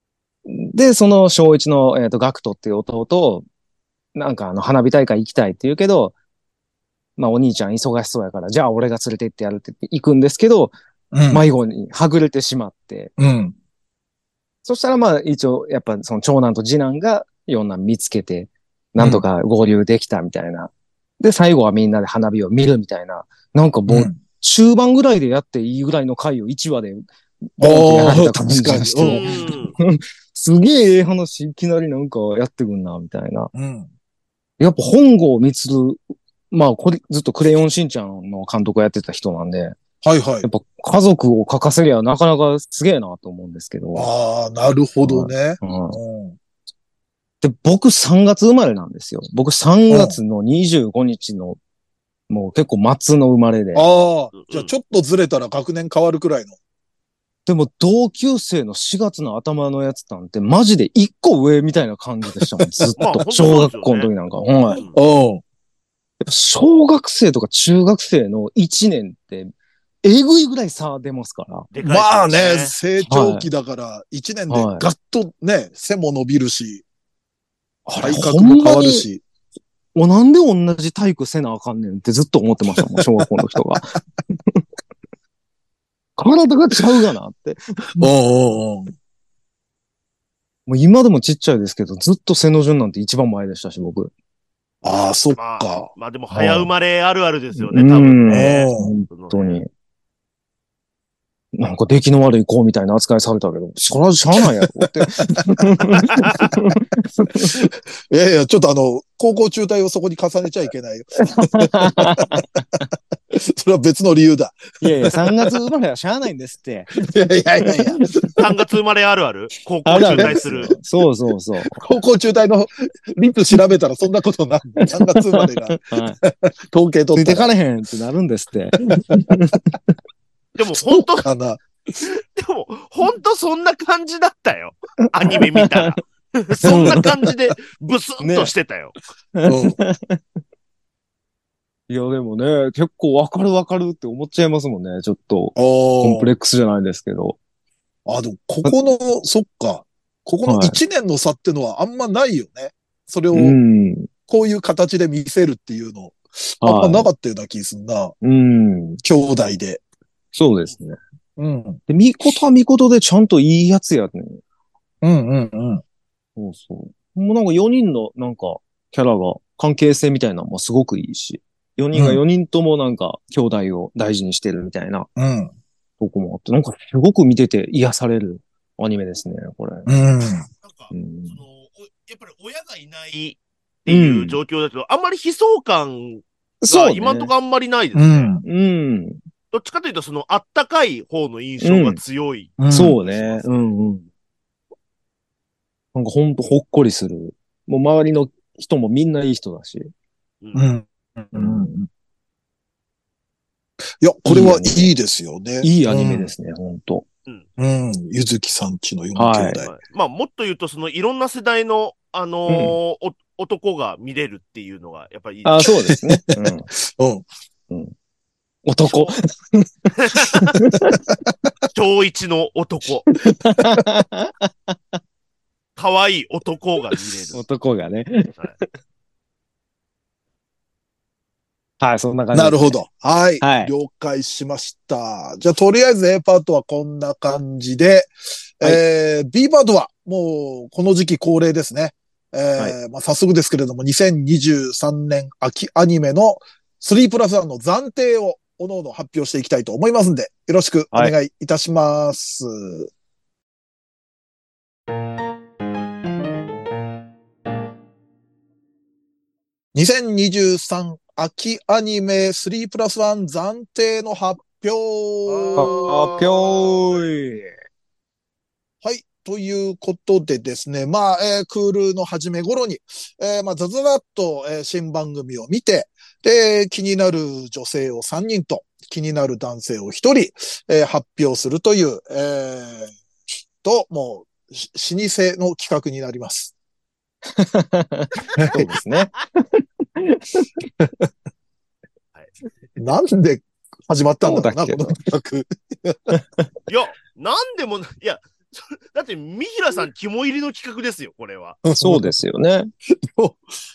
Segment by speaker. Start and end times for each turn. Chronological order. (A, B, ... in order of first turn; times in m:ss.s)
0:00.5-0:03.4 A
0:04.2-0:06.2 A
0:07.2-0:10.7 A
0:11.1-0:11.4 B
0:11.3-0:13.1 A
0:13.2-0:13.6 B
0:14.6-0:33.5 A
0:19.0-0:19.2 B
0:23.9-0:24.2 B
0:27.6-0:29.5 B
0:29.0-0:29.7 C
0:33.5-0:33.9 B
0:34.6-0:36.0 A
0:36.5-0:39.8 A
0:40.0-0:40.5 B
0:40.4-0:44.1 A
0:44.0-0:46.4 B
0:45.0-0:46.0 A
0:47.4-0:51.6 A
0:49.9-0:50.2 B
0:52.3-0:53.8 A
0:53.7-0:56.6 B
0:54.3-0:54.7 C
0:57.5-1:04.8 A
1:02.6-1:02.9 B
1:03.0-1:04.1 C
1:04.7-1:05.0 C
1:04.8-1:05.4 B
1:06.2-1:09.5 A
1:10.0-1:11.7 A
1:11.7-1:12.7 C
1:11.8-1:16.8 B
1:13.1-1:13.5 A
1:14.5-1:14.8 A
1:17.9-1:19.2 B
1:18.0-1:19.1 A
1:20.0-1:24.6 A
1:22.7-1:23.3 B
1:26.2-1:28.1 A
1:28.0-1:28.9 B
1:30.7-1:34.1 A
1:34.8-1:35.9 B
1:35.3-1:39.6 C
1:36.3-1:36.7 A
1:37.6-1:39.7 A
1:38.3-1:38.9 B
1:41.6-1:47.7 A
1:44.4-1:45.6 B
1:47.4-1:52.4 B
1:51.2-1:52.8 A
1:53.3-1:55.3 B
1:54.8-1:57.0 A
1:57.0-1:58.3 B
1:57.6-1:58.0 A
1:58.4-2:00.7 C
1:59.8-2:01.8 A
2:00.0-2:00.8 B
2:01.8-2:07.5 B
2:04.8-2:06.2 A
2:07.2-2:09.8 A
2:10.6-2:11.3 C
2:10.7-2:11.6 B
2:12.0-2:19.0 C
2:15.3-2:16.0 A
2:16.7-2:17.1 A
2:16.7-2:17.0 B
2:18.2-2:18.5 A
2:19.4-2:20.2 A
2:19.5-2:19.8 B
2:21.9-2:27.4 A
2:25.6-2:26.3 B
2:28.1-2:33.6 B
2:30.5-2:30.8 A
2:33.3-2:34.1 A
2:34.3-2:38.2 B
2:36.6-2:37.1 A
2:38.2-2:39.0 A
2:39.0-2:39.8 B
2:40.3-2:41.0 A
2:41.4-2:41.8 B
2:41.9-2:44.4 A
2:45.0-2:45.8 B
2:46.4-2:55.1 A
2:51.9-2:52.2 B
2:55.2-2:55.5 B
2:56.0-2:59.9 A
2:59.9-3:00.5 B
3:00.6-3:08.3 C
3:00.9-3:01.4 A
3:03.9-3:04.4 A
3:06.6-3:07.3 A
3:08.0-3:08.4 B
3:08.4-3:09.2 A
3:09.5-3:13.7 C
3:11.6-3:12.0 A
3:12.6-3:13.0 B
3:12.7-3:14.1 A
3:15.9-3:19.9 A
3:20.4-3:20.7 C
3:20.5-3:21.9 B
3:21.3-3:21.7 A
3:24.0-3:26.3 B
3:24.2-3:24.9 A
3:25.6-3:27.0 A
3:27.6-3:29.7 B
3:29.2-3:29.6 A
3:29.6-3:35.8 C
3:32.5-3:32.8 A
3:35.4-3:36.7 A
3:35.7-3:37.3 B
3:37.7-3:37.9 A
3:38.6-3:41.0 A
3:38.8-3:39.2 C
3:40.0-3:40.6 C
3:41.7-3:43.1 C
3:43.1-3:45.0 A
3:45.8-3:47.4 C
3:47.3-3:48.6 A
3:51.8-3:52.8 A
3:52.3-4:12.9 B
3:53.4-3:53.7 A
4:19.7-4:26.2 B
4:25.3-4:27.0 C
4:25.6-4:27.5 A
4:28.8-4:42.9 B
4:43.6-4:46.5 B
4:47.4-4:50.6 A
4:48.4-4:48.7 B
4:52.8-4:56.2 B
4:54.2-4:55.0 A
4:56.1-4:56.4 A
4:56.7-5:01.6 C
5:01.6-5:02.2 B
5:01.8-5:02.7 A
5:03.1-5:03.4 B